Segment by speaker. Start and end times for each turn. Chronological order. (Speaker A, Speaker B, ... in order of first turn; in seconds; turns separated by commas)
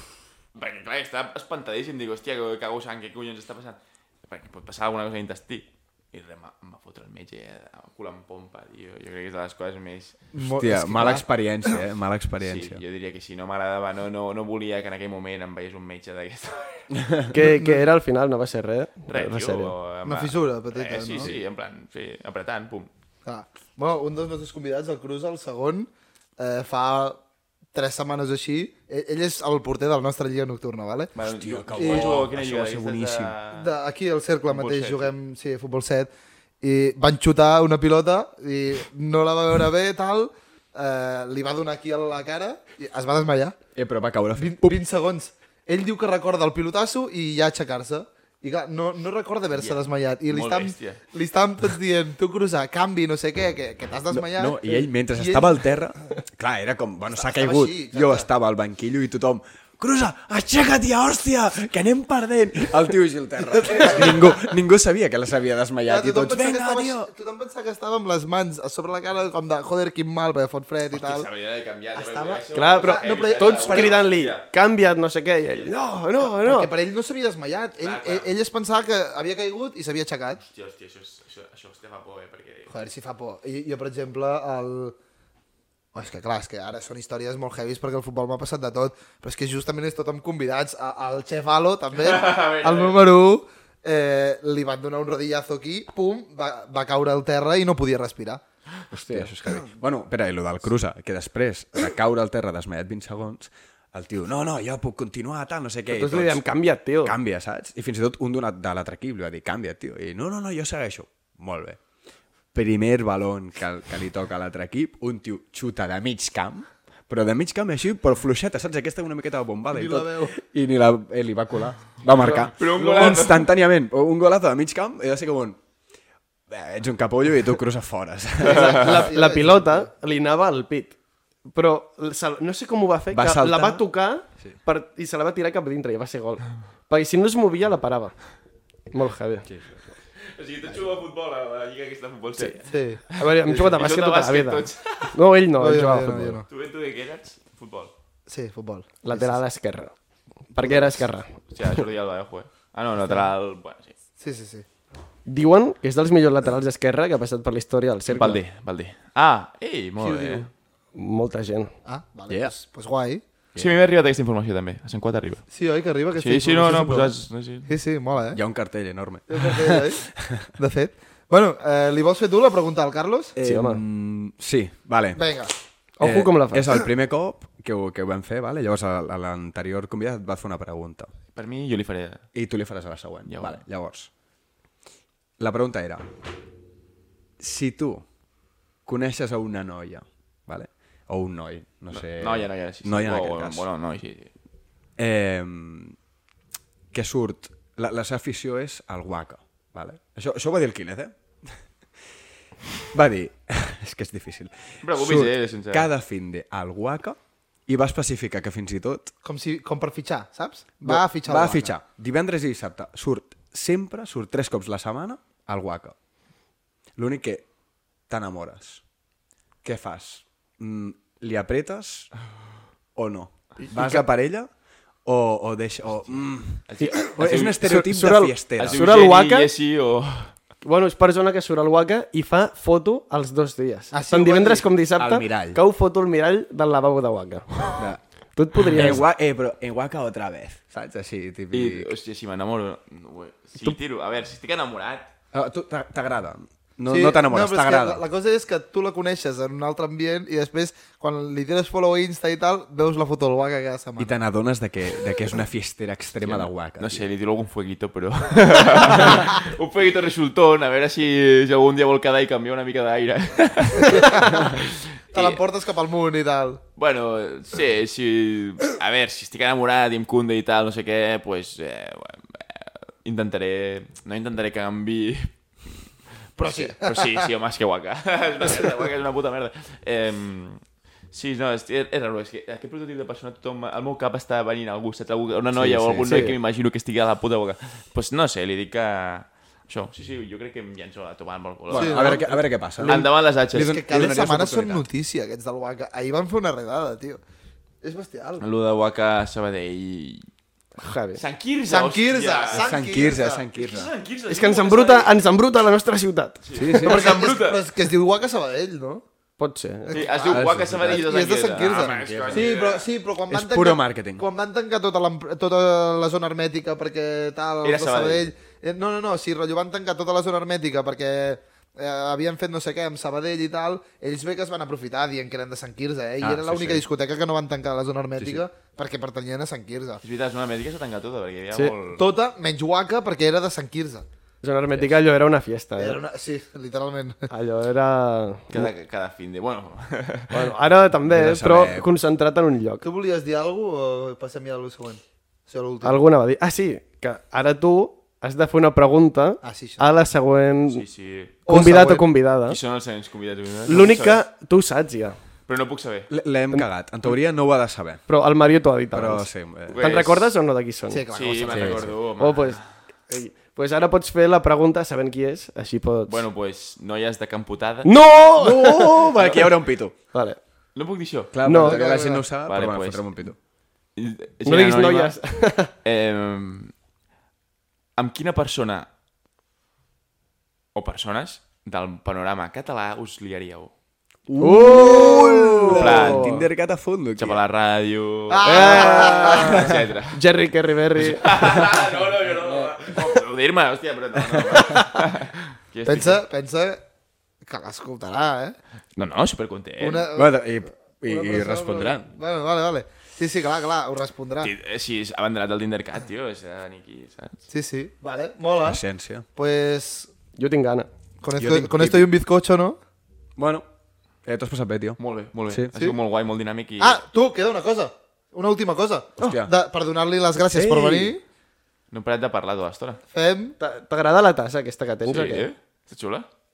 Speaker A: 0.6-10.3, Speaker B: 10.3-11.8, Speaker C: 10.4-12.8, Speaker A: 12.4-16.9, Speaker D: 17.3-19.8, Speaker B: 17.4-17.8, Speaker A: 19.1-22.9, Speaker B: 20.0-21.4, Speaker B: 23.2-27.2, Speaker B: 27.7-31.1, Speaker A: 31.1-33.7, Speaker C: 31.2-33.4, Speaker B: 31.7-32.2, Speaker B: 33.5-36.1, Speaker A: 34.5-35.1, Speaker B: 36.6-43.6, Speaker C: 43.8-44.8, Speaker B: 44.4-55.6, Speaker A: 49.5-51.0, Speaker C: 54.1-67.1, Speaker B: 57.1-58.3, Speaker B: 63.6-64.4, Speaker B: 65.9-71.3, Speaker A: 70.9-74.5, Speaker B: 72.0-74.0, Speaker D: 72.5-76.7, Speaker B: 76.4-80.4, Speaker A: 77.8-78.3, Speaker A: 80.5-82.8, Speaker B: 82.7-85.0, Speaker B: 85.9-98.4, Speaker A: 92.0-93.0, Speaker C: 98.9-106.5, Speaker D: 98.9-99.3, Speaker D: 105.9-107.2, Speaker C: 107.0-111.8, Speaker C: 112.5-125.6, Speaker B: 119.7-120.3, Speaker A: 122.1-123.5, Speaker D: 122.2-123.1, Speaker C: 126.5-129.0, Speaker D: 128.4-131.0, Speaker B: 128.4-129.9, Speaker D: 131.5-138.2, Speaker C: 133.1-133.9, Speaker D: 138.9-139.5, Speaker C: 139.4-139.8, Speaker A: 140.3-145.2, Speaker B: 142.7-143.0, Speaker D: 143.2-146.4, Speaker B: 145.6-146.5, Speaker A: 146.5-147.9, Speaker B: 148.3-149.4, Speaker D: 149.0-149.9, Speaker D: 150.5-151.3, Speaker B: 150.6-151.1, Speaker A: 151.5-153.9, Speaker B: 154.2-154.7, Speaker D: 155.3-158.4, Speaker A: 158.1-160.5, Speaker B: 160.0-160.5, Speaker D: 160.9-161.7, Speaker B: 161.8-163.2, Speaker C: 162.3-162.5, Speaker A: 163.6-165.5, Speaker B: 165.5-167.1, Speaker A: 166.1-167.7, Speaker B: 167.7-168.4, Speaker C: 168.3-170.5, Speaker B: 169.3-170.1, Speaker B: 170.6-173.4, Speaker C: 173.4-175.2, Speaker D: 173.4-173.8, Speaker B: 175.2-175.5, Speaker D: 176.0-176.8, Speaker C: 176.0-181.1, Speaker A: 181.3-182.3, Speaker C: 182.3-184.1, Speaker A: 183.3-183.6, Speaker C: 185.4-186.1, Speaker C: 187.4-188.1, Speaker C: 188.9-193.7, Speaker A: 191.9-194.3, Speaker C: 195.0-196.0, Speaker C: 196.9-201.6, Speaker C: 202.9-209.1, Speaker A: 204.8-205.9, Speaker B: 209.2-211.7, Speaker C: 210.8-215.9, Speaker C: 217.0-217.5, Speaker C: 218.1-218.8, Speaker C: 219.6-222.1, Speaker C: 222.9-224.5, Speaker B: 223.7-224.1, Speaker C: 225.1-228.8, Speaker A: 226.7-227.8, Speaker D: 226.8-229.5, Speaker A: 228.6-230.3, Speaker D: 230.6-239.1, Speaker B: 233.9-234.7, Speaker C: 235.0-235.6, Speaker C: 238.7-241.9, Speaker A: 241.5-245.1, Speaker C: 245.3-248.0, Speaker B: 246.9-254.2, Speaker C: 254.0-257.1, Speaker A: 256.2-265.4, Speaker B: 263.8-264.6, Speaker B: 265.1-266.6, Speaker A: 266.8-292.3, Speaker B: 276.4-277.3, Speaker C: 285.6-286.4, Speaker D: 286.0-286.4, Speaker C: 291.7-294.9, Speaker B: 291.7-292.3, Speaker D: 292.8-293.1, Speaker A: 292.8-293.9, Speaker B: 293.5-297.2, Speaker B: 297.8-298.4, Speaker A: 298.4-300.3, Speaker D: 300.8-301.2, Speaker A: 301.2-305.1, Speaker B: 301.7-303.5, Speaker C: 302.5-303.9, Speaker D: 304.3-306.4, Speaker A: 306.4-307.6, Speaker C: 306.6-307.0, Speaker B: 306.8-309.0, Speaker D: 309.4-310.0, Speaker B: 309.9-330.0, Speaker A: 309.9-312.9, Speaker C: 310.3-311.1, Speaker C: 311.8-312.5, Speaker C: 313.3-314.2, Speaker A: 317.6-318.3, Speaker C: 326.2-326.9, Speaker C: 328.2-328.4, Speaker A: 330.0-332.0, Speaker B: 332.0-334.1, Speaker D: 334.4-336.0, Speaker B: 335.8-337.3, Speaker D: 337.3-338.7, Speaker A: 338.5-340.5, Speaker D: 340.3-342.9, Speaker C: 341.1-341.9, Speaker B: 342.8-346.0, Speaker D: 345.8-350.8, Speaker B: 349.4-349.9, Speaker A: 350.7-351.4, Speaker B: 351.5-352.1, Speaker D: 351.5-352.6, Speaker A: 352.5-354.2, Speaker D: 353.7-355.2, Speaker A: 355.5-356.1, Speaker C: 356.1-358.0, Speaker D: 358.1-361.0, Speaker C: 358.9-359.8, Speaker A: 359.7-360.3, Speaker B: 360.9-361.9, Speaker A: 361.1-362.7, Speaker C: 361.5-361.9, Speaker D: 362.2-366.2, Speaker A: 366.1-367.9, Speaker D: 367.9-369.4, Speaker C: 368.4-369.9, Speaker D: 370.1-370.4, Speaker A: 370.8-371.4, Speaker C: 371.3-373.4, Speaker D: 371.4-371.8, Speaker B: 371.5-372.3, Speaker A: 372.4-373.1, Speaker A: 374.0-375.2, Speaker D: 374.4-375.7, Speaker A: 375.8-376.7, Speaker A: 378.0-378.9, Speaker A: 380.8-383.7, Speaker C: 384.3-387.4, Speaker D: 384.4-386.4, Speaker B: 384.8-385.2, Speaker A: 385.7-386.4, Speaker A: 387.2-390.2, Speaker B: 388.3-389.8, Speaker D: 388.4-391.3, Speaker C: 388.7-389.8, Speaker A: 391.0-396.2, Speaker C: 392.4-392.9, Speaker C: 394.2-394.4, Speaker D: 394.5-395.1, Speaker B: 395.9-396.8, Speaker B: 397.4-398.6, Speaker A: 399.0-400.1, Speaker B: 399.8-400.4, Speaker C: 400.1-402.1, Speaker B: 401.1-404.5, Speaker A: 404.4-407.4, Speaker B: 407.5-408.8, Speaker C: 408.6-409.3, Speaker B: 409.4-410.1, Speaker D: 410.4-410.9, Speaker B: 411.2-412.8, Speaker C: 411.4-412.1, Speaker C: 413.4-413.7, Speaker C: 414.2-415.7, Speaker A: 415.0-417.0, Speaker B: 416.8-421.2, Speaker C: 419.2-419.5, Speaker C: 420.5-421.2, Speaker A: 421.9-423.0, Speaker B: 423.1-423.6, Speaker D: 423.6-425.5, Speaker A: 425.1-426.3